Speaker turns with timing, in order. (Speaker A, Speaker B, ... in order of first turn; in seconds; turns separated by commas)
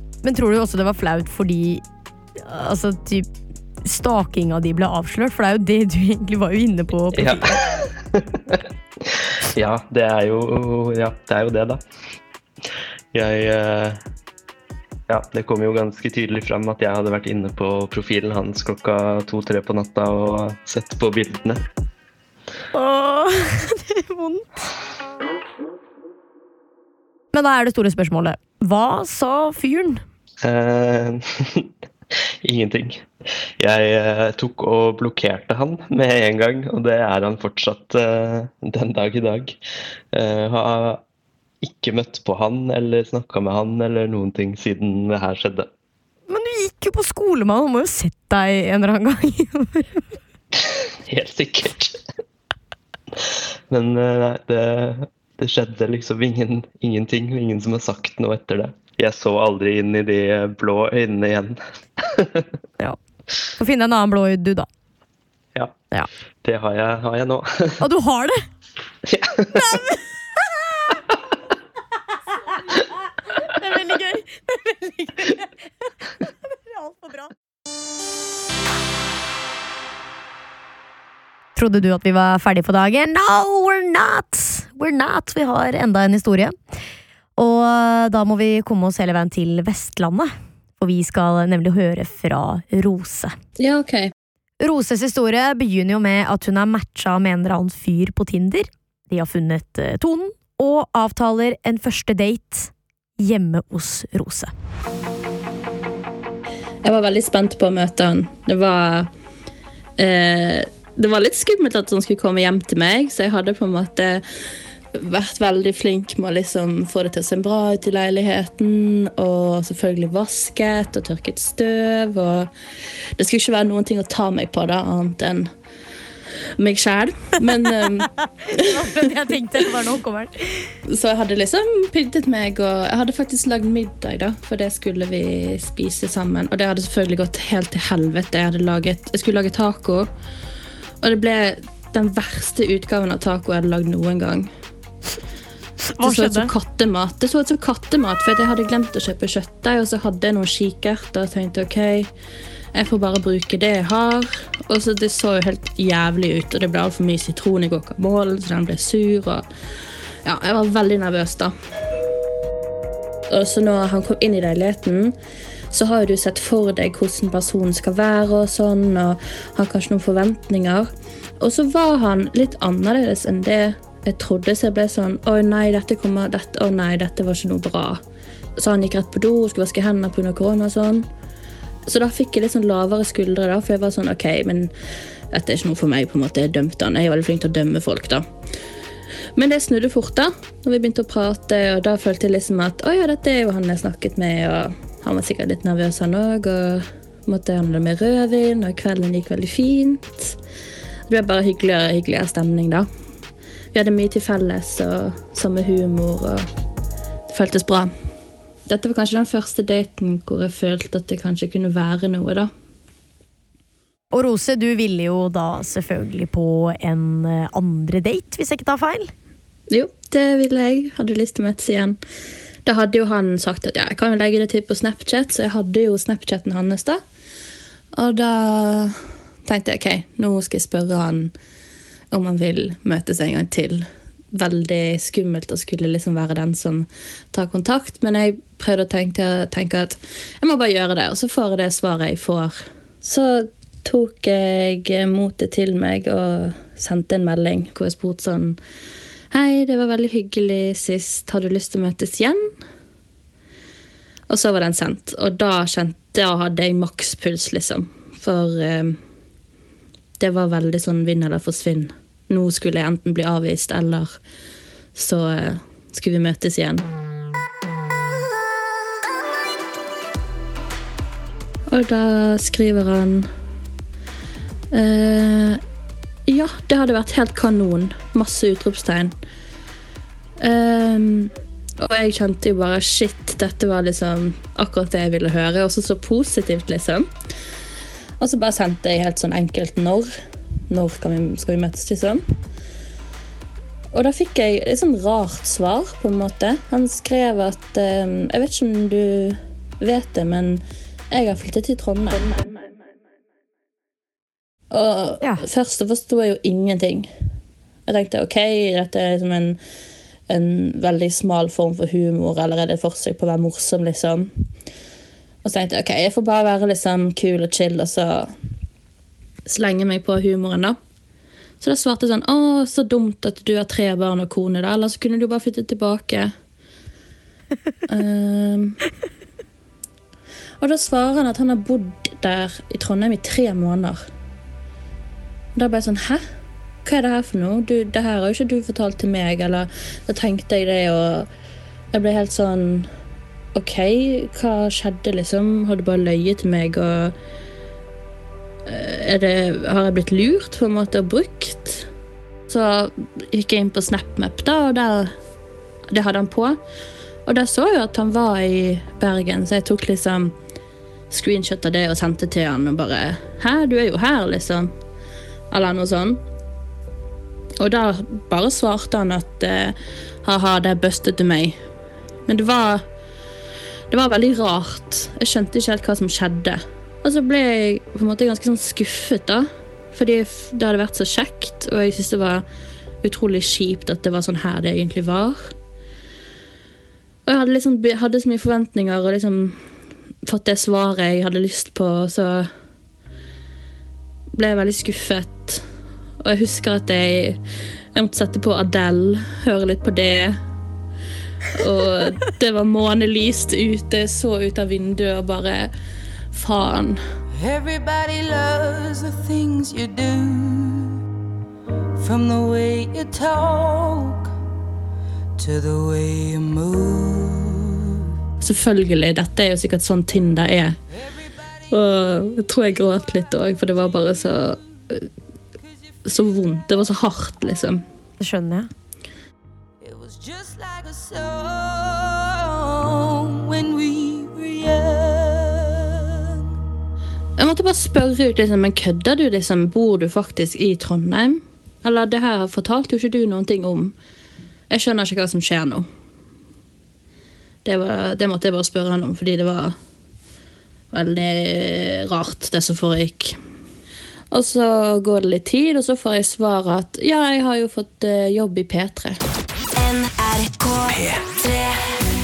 Speaker A: 0.2-1.8, Speaker A: 2.4-3.3, Speaker A: 3.8-7.6, Speaker B: 7.1-7.6, Speaker B: 8.1-11.8, Speaker B: 13.1-14.0, Speaker B: 15.1-21.6, Speaker A: 22.7-24.6, Speaker A: 27.3-30.0, Speaker B: 30.4-31.7, Speaker B: 32.4-39.6, Speaker B: 40.1-41.0, Speaker B: 41.6-45.7, Speaker A: 46.3-50.0, Speaker B: 50.6-52.0, Speaker B: 53.1-62.5, Speaker A: 63.6-64.7, Speaker B: 66.4-67.8, Speaker A: 67.8-68.4, Speaker B: 69.0-69.8, Speaker A: 69.6-70.0, Speaker A: 72.8-75.5, Speaker A: 76.2-77.3, Speaker A: 81.5-86.5, Speaker A: 87.4-93.3, Speaker C: 93.6-94.1, Speaker A: 94.6-104.5, Speaker C: 106.8-109.1, Speaker C: 110.0-114.2, Speaker C: 114.9-122.5, Speaker C: 123.2-125.5, Speaker C: 126.6-129.2, Speaker A: 128.5-130.7, Speaker C: 130.9-140.1, Speaker C: 141.0-144.5, Speaker A: 145.9-146.5, Speaker C: 146.0-152.1, Speaker C: 152.7-159.4, Speaker C: 160.2-161.5, Speaker C: 163.3-165.2, Speaker C: 165.7-178.0, Speaker C: 178.6-181.1, Speaker C: 181.8-184.7, Speaker C: 185.3-188.2, Speaker C: 189.3-200.4, Speaker C: 201.1-202.9, Speaker C: 203.7-206.4, Speaker C: 207.3-207.9, Speaker C: 208.7-212.5, Speaker A: 214.1-219.1, Speaker C: 219.7-222.0, Speaker C: 222.6-227.0, Speaker C: 227.9-231.3, Speaker C: 232.1-248.6, Speaker C: 249.3-252.5, Speaker C: 254.3-259.0, Speaker C: 260.2-264.2, Speaker C: 264.9-266.9, Speaker C: 271.7-273.3, Speaker C: 274.7-275.6, Speaker C: 276.3-279.1, Speaker C: 280.4-287.1, Speaker C: 288.2-290.1, Speaker C: 290.7-292.2, Speaker C: 293.9-302.5, Speaker C: 304.7-307.1, Speaker C: 307.9-309.6, Speaker C: 310.3-314.3, Speaker C: 315.4-318.3, Speaker C: 319.4-320.8, Speaker C: 321.6-326.3, Speaker C: 327.9-328.8, Speaker C: 330.6-334.0, Speaker C: 335.6-336.2, Speaker C: 336.8-341.3, Speaker C: 341.9-342.9, Speaker C: 343.5-347.1, Speaker C: 348.6-351.9, Speaker C: 352.5-355.1, Speaker C: 355.9-356.6, Speaker C: 357.3-360.3, Speaker C: 361.1-364.7, Speaker C: 365.5-366.2, Speaker C: 367.6-371.6, Speaker C: 372.3-372.8, Speaker C: 373.9-382.4, Speaker C: 383.0-385.5, Speaker C: 387.2-389.6, Speaker C: 390.2-392.5, Speaker C: 394.3-395.6, Speaker C: 396.2-397.4, Speaker C: 397.9-400.4, Speaker C: 401.6-405.7, Speaker C: 406.3-407.0, Speaker D: 407.4-410.9, Speaker D: 412.0-414.2, Speaker D: 415.4-417.7, Speaker C: 418.4-420.8, Speaker C: 421.7-425.1, Speaker C: 426.1-427.8, Speaker A: 428.2-428.7, Speaker D: 429.8-435.9, Speaker C: 437.4-443.9, Speaker C: 444.7-445.9, Speaker C: 447.6-449.8, Speaker C: 450.9-453.4, Speaker C: 454.3-459.2